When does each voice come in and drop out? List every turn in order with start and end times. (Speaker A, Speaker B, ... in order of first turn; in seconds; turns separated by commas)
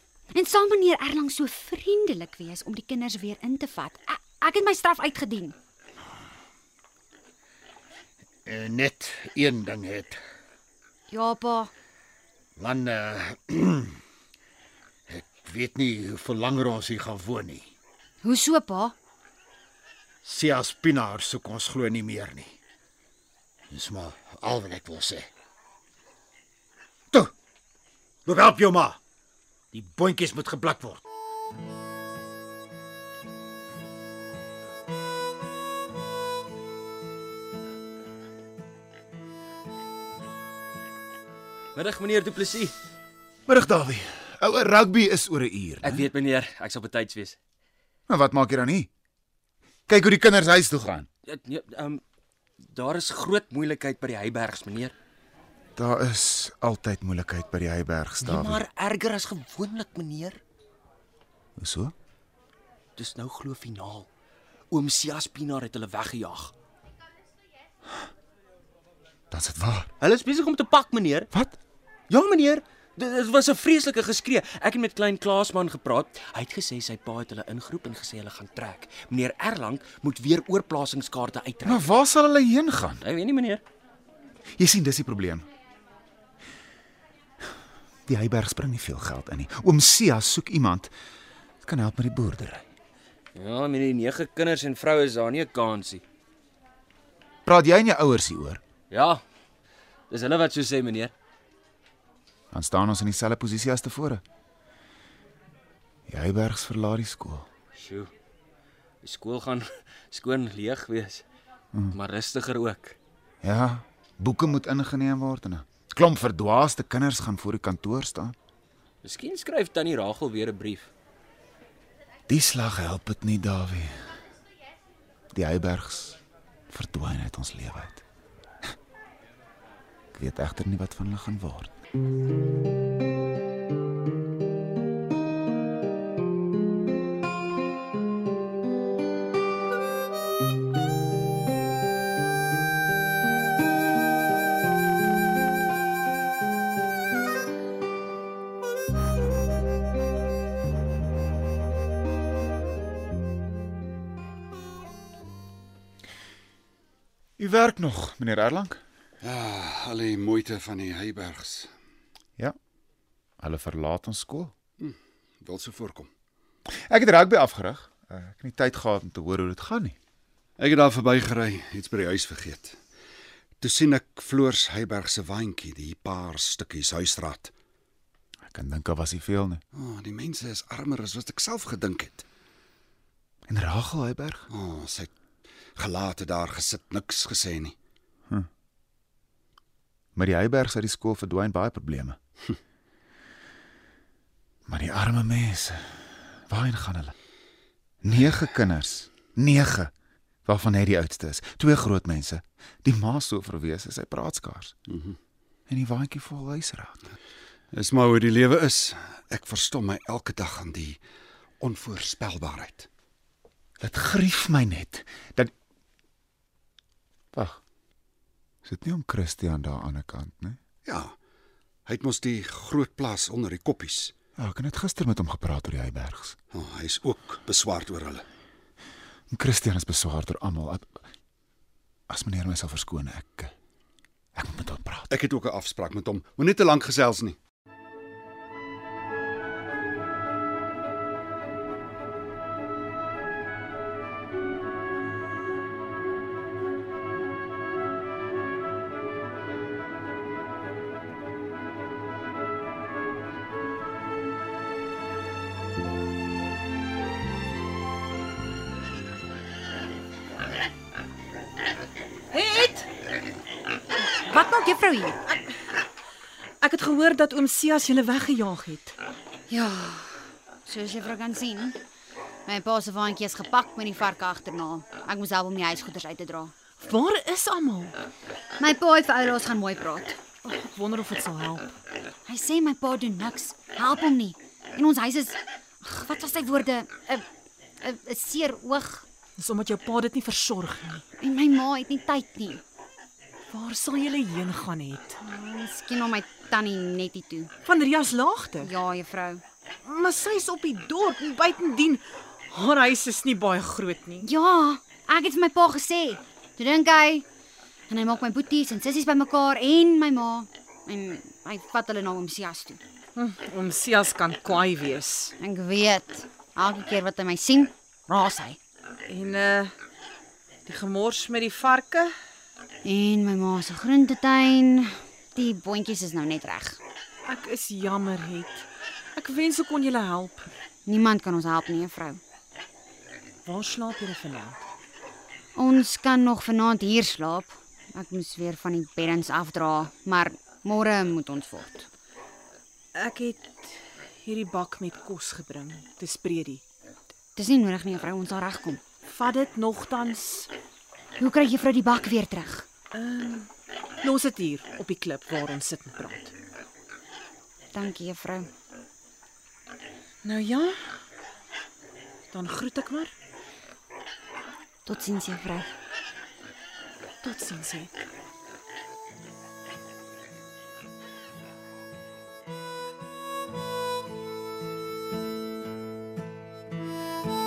Speaker A: 0.3-5.5, Speaker B: 8.5-10.2, Speaker A: 11.1-11.7, Speaker B: 12.6-14.0, Speaker B: 15.1-17.7, Speaker A: 18.2-18.9, Speaker B: 20.2-22.6, Speaker B: 23.7-25.3, Speaker B: 28.3-29.0, Speaker B: 29.7-31.0, Speaker C: 41.8-42.8, Speaker D: 43.5-46.1, Speaker C: 45.8-47.4, Speaker D: 48.1-48.9, Speaker D: 49.9-51.1, Speaker C: 51.3-52.0, Speaker C: 52.6-54.9, Speaker D: 55.8-58.6, Speaker C: 58.2-60.4, Speaker D: 61.6-61.9, Speaker C: 63.0-64.1, Speaker C: 64.7-66.5, Speaker D: 69.3-69.9, Speaker C: 70.0-71.3, Speaker D: 71.3-71.6, Speaker C: 72.1-81.8, Speaker D: 81.6-83.0, Speaker C: 83.0-83.6, Speaker D: 84.6-85.5, Speaker D: 88.1-90.9, Speaker D: 91.6-92.7, Speaker C: 93.3-96.0, Speaker D: 97.5-98.6, Speaker C: 98.9-99.2, Speaker C: 100.1-101.1, Speaker D: 102.5-104.2, Speaker D: 106.1-107.5, Speaker C: 107.8-108.1, Speaker C: 109.0-111.2, Speaker C: 111.9-113.0, Speaker D: 113.4-118.4, Speaker C: 119.0-120.9, Speaker D: 122.3-124.1, Speaker D: 125.3-126.2, Speaker D: 126.7-128.0, Speaker D: 130.1-131.8, Speaker D: 157.4-158.8, Speaker E: 159.2-161.7, Speaker D: 163.4-164.5, Speaker E: 164.8-166.1, Speaker D: 166.9-170.0, Speaker E: 170.6-172.8, Speaker E: 173.6-177.5, Speaker D: 178.5-179.6, Speaker E: 179.7-182.2, Speaker D: 183.5-184.5, Speaker E: 184.5-185.1, Speaker E: 185.8-187.8, Speaker D: 190.2-192.2, Speaker D: 194.7-197.1, Speaker D: 198.0-199.9, Speaker D: 200.5-204.7, Speaker E: 204.9-205.2, Speaker D: 205.7-207.0, Speaker E: 207.7-211.0, Speaker E: 211.6-212.9, Speaker D: 213.8-215.5, Speaker D: 217.3-217.6, Speaker D: 218.6-220.6, Speaker E: 220.8-221.2, Speaker E: 221.9-224.1, Speaker D: 224.4-226.4, Speaker E: 226.5-228.2, Speaker D: 229.3-231.0, Speaker D: 232.1-233.5, Speaker D: 234.3-235.1, Speaker E: 235.1-237.4, Speaker F: 262.3-262.9, Speaker A: 264.2-265.2, Speaker F: 266.6-268.9, Speaker A: 269.5-271.8, Speaker A: 272.5-276.5, Speaker F: 276.8-278.0, Speaker A: 278.6-280.2, Speaker F: 280.4-281.8, Speaker A: 282.3-287.3, Speaker A: 287.8-289.1, Speaker F: 289.4-291.0, Speaker A: 291.2-292.6, Speaker F: 293.5-295.2, Speaker A: 295.2-297.5, Speaker F: 297.6-298.7, Speaker A: 298.6-299.4, Speaker F: 299.9-304.3, Speaker A: 304.2-307.2, Speaker A: 307.9-312.8, Speaker F: 313.2-315.3, Speaker A: 315.4-318.6, Speaker F: 319.1-319.7, Speaker F: 320.7-322.1, Speaker A: 322.8-326.8, Speaker F: 327.3-330.5, Speaker A: 330.9-332.2, Speaker F: 333.5-334.6, Speaker A: 335.6-341.9, Speaker F: 342.9-346.6, Speaker A: 347.4-348.8, Speaker F: 349.1-350.5, Speaker A: 351.2-352.7, Speaker F: 352.9-353.5, Speaker F: 354.0-356.3, Speaker A: 357.7-358.5, Speaker F: 360.2-360.8, Speaker F: 362.3-363.1, Speaker A: 364.9-365.7, Speaker F: 367.2-367.9